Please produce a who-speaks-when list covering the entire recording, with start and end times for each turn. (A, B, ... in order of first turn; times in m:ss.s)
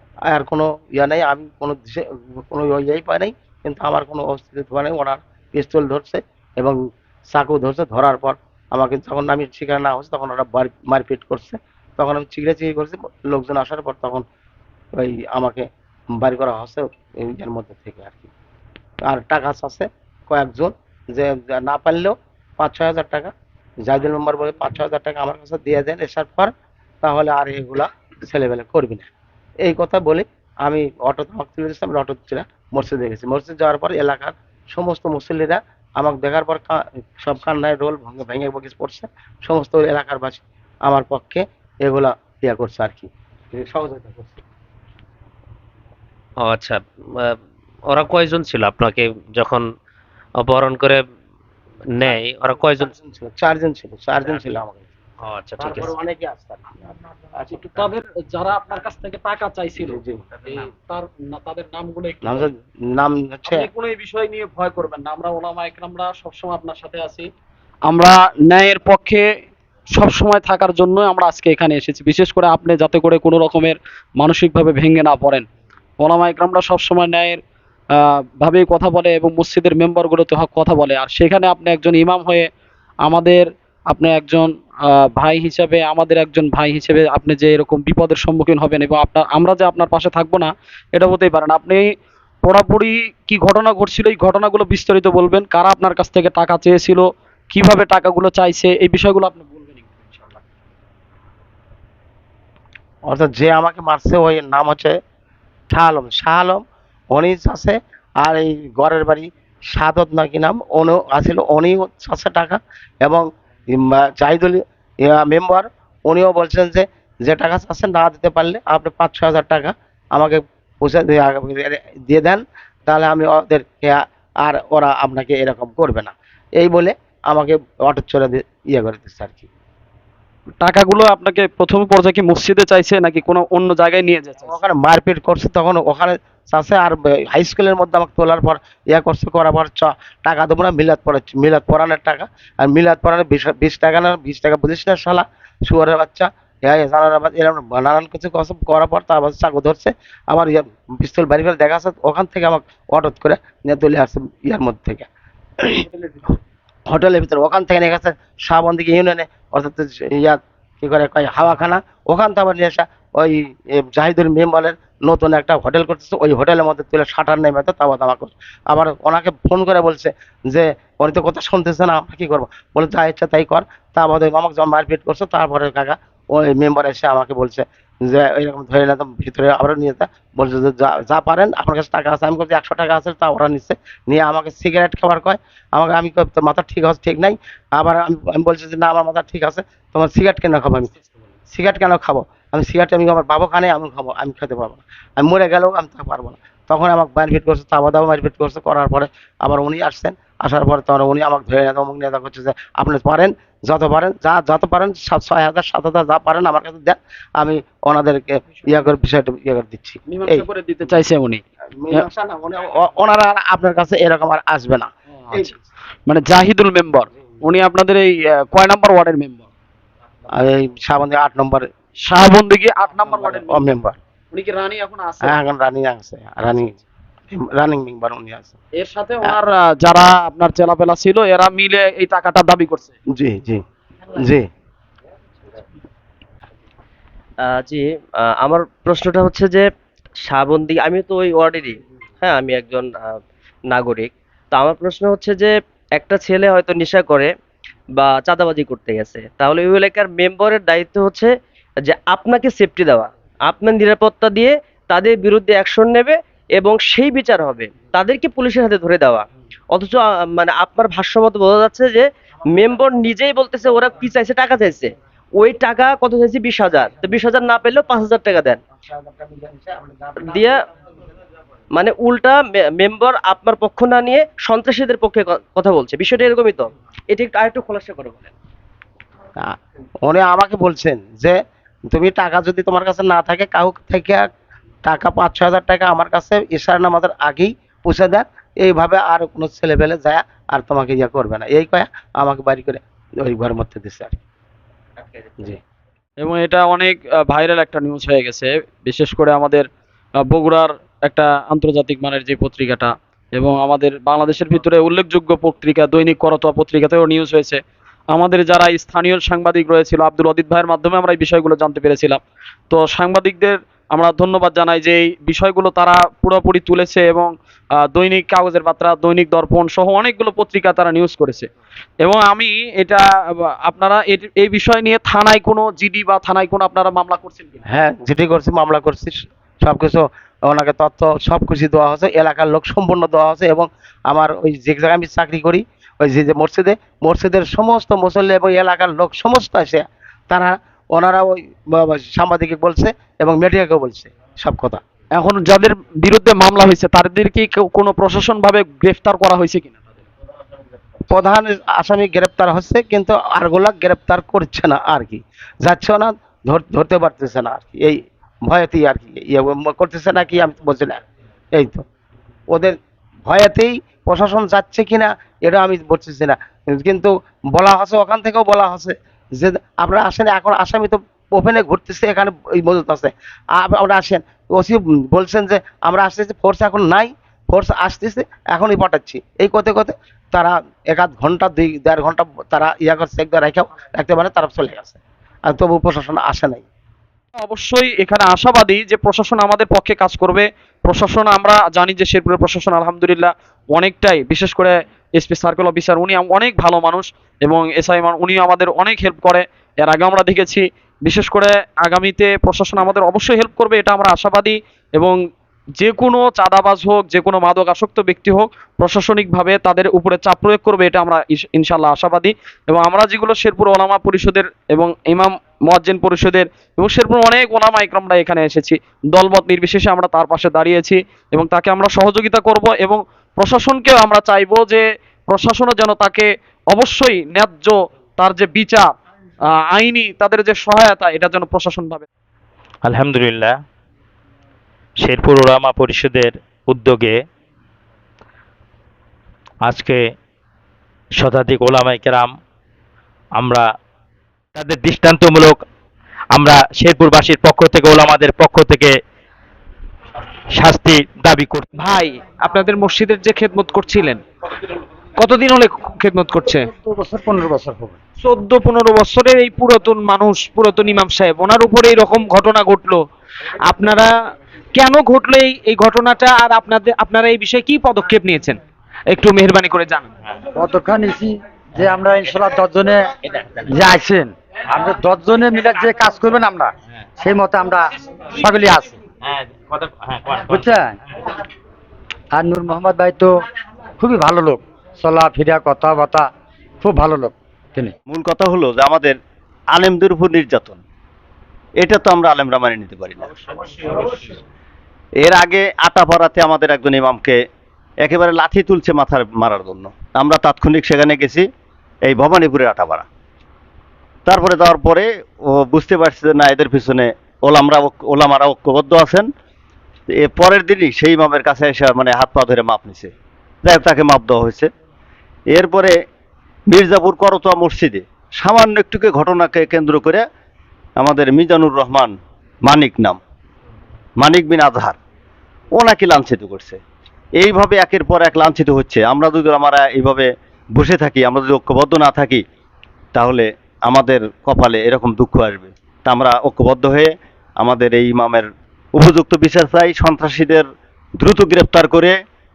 0:00.3-0:06.8 A
0:07.3-0:14.2 A
0:15.0-0:15.6 A
0:16.2-0:18.3 A
0:19.1-0:23.3 A
0:23.8-0:26.5 A
0:27.0-0:29.1 A
0:29.6-0:44.4 A
0:46.4-0:47.4 B
0:47.9-0:49.6 B
0:50.4-0:51.0 B
0:52.0-0:52.9 B
0:52.8-0:54.9 A
0:55.2-0:56.0 B
0:55.6-0:56.8 A
0:57.4-0:57.9 A
0:57.5-1:02.5 C
0:59.8-1:00.2 A
1:02.2-1:03.7 A
1:03.5-1:07.3 C
1:07.9-1:09.3 C
1:09.9-1:15.4 C
1:16.0-1:17.4 C
1:18.0-1:22.5 C
1:23.0-1:31.8 C
1:32.4-1:40.4 C
1:43.1-1:45.0 A
1:45.7-1:46.6 A
1:47.1-2:09.5 A
2:10.6-2:14.5 C
2:14.5-2:35.1 A
2:35.9-2:36.3 C
2:36.9-3:10.9 A
3:11.5-3:30.4 A
3:30.1-3:31.4 C
3:31.8-3:35.5 A
3:35.2-3:35.5 C
3:36.1-3:39.5 C
3:40.3-3:41.7 A
3:42.0-3:43.6 C
3:43.0-3:44.0 A
3:44.3-3:45.4 C
3:45.2-3:46.8 A
3:47.3-3:48.6 A
3:48.8-3:53.0 C
3:53.1-3:54.5 A
3:57.4-3:59.7 D
4:00.2-4:07.3 D
4:08.0-4:28.6 D
4:28.8-4:30.4 A
4:30.2-4:30.6 D
4:31.7-4:38.3 D
4:39.4-4:41.4 A
4:41.9-4:44.3 A
4:44.8-4:54.2 A
4:56.2-4:59.7 C
5:00.2-5:21.5 C
5:22.0-5:27.6 C
5:27.7-5:44.8 A
5:45.2-5:49.8 C
5:51.1-6:01.0 A
6:01.6-6:01.8 A
6:02.5-6:02.8 A
6:03.3-6:26.6 A
6:27.4-6:45.2 C
6:45.8-7:08.9 C
7:09.5-7:12.1 C
7:12.8-7:13.5 E
7:15.0-7:17.2 E
7:19.6-7:20.0 E
7:21.2-7:22.3 E
7:23.4-7:23.7 E
7:24.6-7:25.6 E
7:26.3-7:29.0 E
7:30.6-7:31.6 E
7:31.8-7:34.2 F
7:35.2-7:36.7 F
7:36.6-7:38.0 G
7:38.2-7:43.1 F
7:43.6-7:44.1 F
7:44.7-7:50.1 F
7:50.6-7:53.1 G
7:53.7-7:59.0 G
7:59.8-8:00.4 F
8:00.4-8:01.0 G
8:02.3-8:03.3 G
8:04.0-8:06.3 G
8:06.8-8:07.9 G
8:08.1-8:09.2 H
8:09.7-8:10.8 H
8:11.8-8:13.3 H
8:15.2-8:17.4 H
8:18.0-8:21.4 H
8:22.0-8:23.1 H
8:24.3-8:29.3 H
8:30.1-8:33.1 H
8:33.6-8:34.7 H
8:35.5-8:35.9 H
8:36.7-8:40.2 H
8:41.0-8:42.1 H
8:42.6-8:43.2 H
8:44.2-8:45.0 H
8:45.8-8:46.8 H
8:47.4-8:52.4 H
8:53.1-9:00.6 H
9:01.2-9:02.2 H